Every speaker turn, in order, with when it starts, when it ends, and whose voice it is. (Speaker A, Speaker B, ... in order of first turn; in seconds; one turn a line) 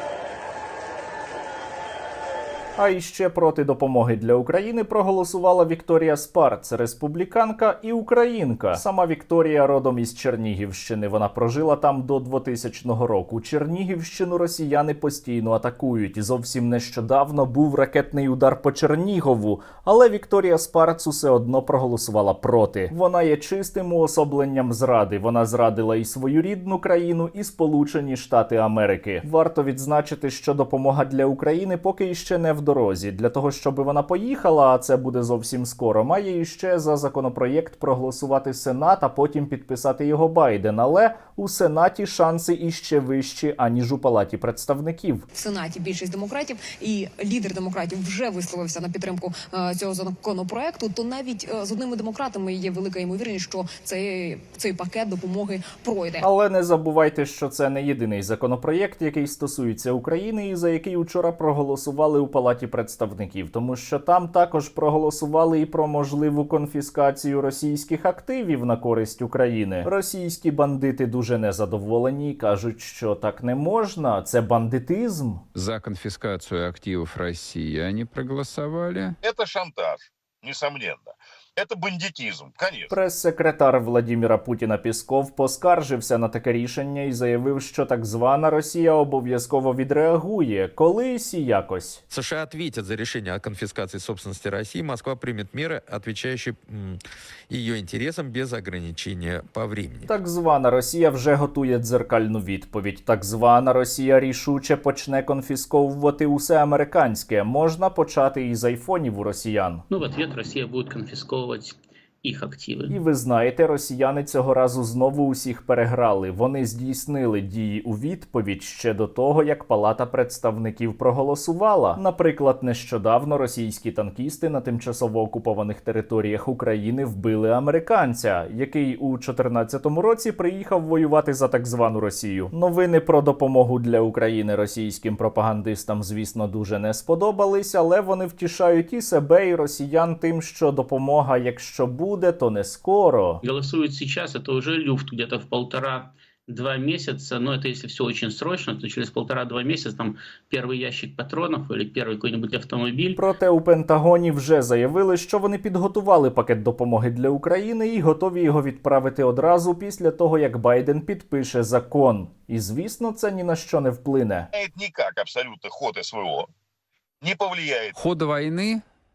Speaker A: 2.8-45.2
Speaker B: 45.3-56.3
Speaker A: 56.2-75.4
Speaker C: 75.5-79.2
Speaker D: 79.2-82.9
Speaker A: 82.9-92.0
Speaker E: 92.1-96.9
Speaker E: 97.5-100.1
Speaker A: 100.1-109.8
Speaker F: 109.9-113.0
Speaker A: 112.9-143.4
Speaker F: 143.4-153.2
Speaker A: 153.2-164.5
Speaker D: 164.5-166.5
Speaker D: 167.2-167.9
Speaker C: 168.0-168.8